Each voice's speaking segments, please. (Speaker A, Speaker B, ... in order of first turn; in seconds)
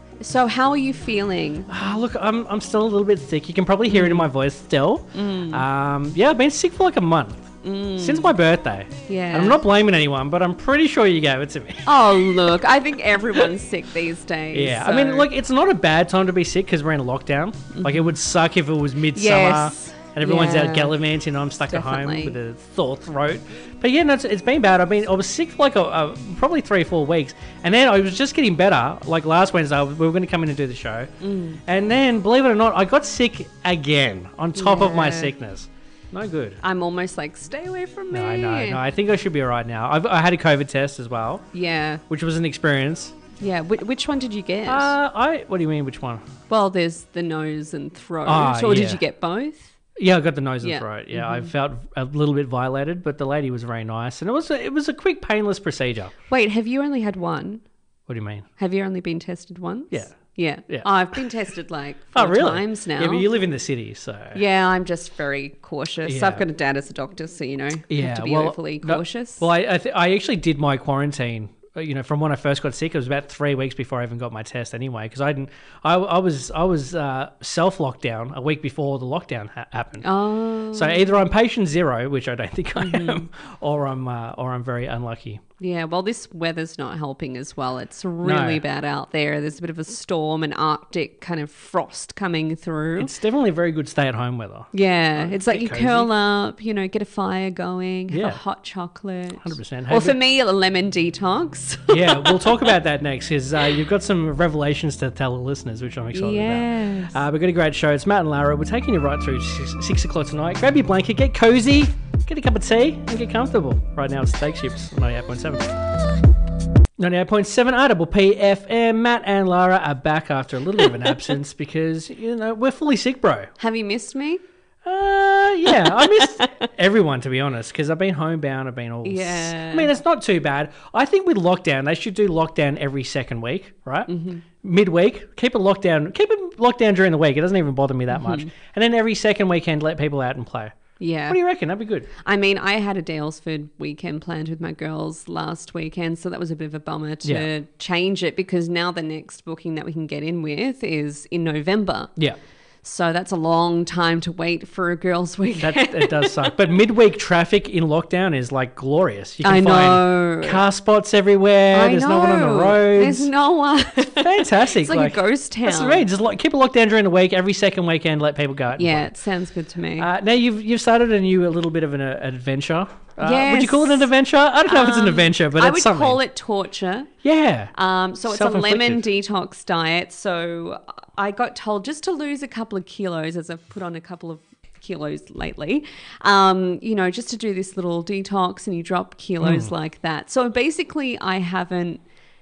Speaker A: 0.2-1.7, 3.9-4.3, 5.1-5.6, 7.6-8.3, 9.1-9.6, 11.8-15.3, 17.7-18.1, 19.1-21.0, 21.7-22.4, 31.2-31.6, 34.5-35.3, 36.6-38.8, 41.5-42.0, 43.4-44.9, 46.5-49.7, 50.6-51.5, 56.3-57.6, 58.6-63.3, 64.3-69.5, 80.0-81.1, 82.8-83.2, 85.6-93.1, 94.7-102.8, 106.1-107.2, 123.6-124.4, 125.7-126.5, 129.0-129.9, 134.1-134.4, 138.1-138.5, 141.0-141.4, 142.2-152.1, 152.8-156.7, 159.4-160.6, 161.7-166.1, 168.8-170.1, 173.2-174.1, 174.7-177.1, 177.7-192.0
Speaker B: 1.7-11.9, 14.5-31.1, 31.6-36.6, 38.1-41.5, 42.1-43.2, 44.6-46.3, 48.2-49.0, 50.0-56.1, 58.1-58.5, 59.9-61.2, 62.1-64.4, 66.0-66.4, 67.9-80.1, 80.7-85.4, 88.2-88.6, 93.0-96.1, 98.1-98.4, 99.4-100.2, 101.9-115.7, 117.0-123.5, 124.8-140.8, 141.3-142.1, 155.6-163.3, 164.0-169.1, 170.0-176.2, 177.2-177.7, 178.2-179.1, 189.4-189.7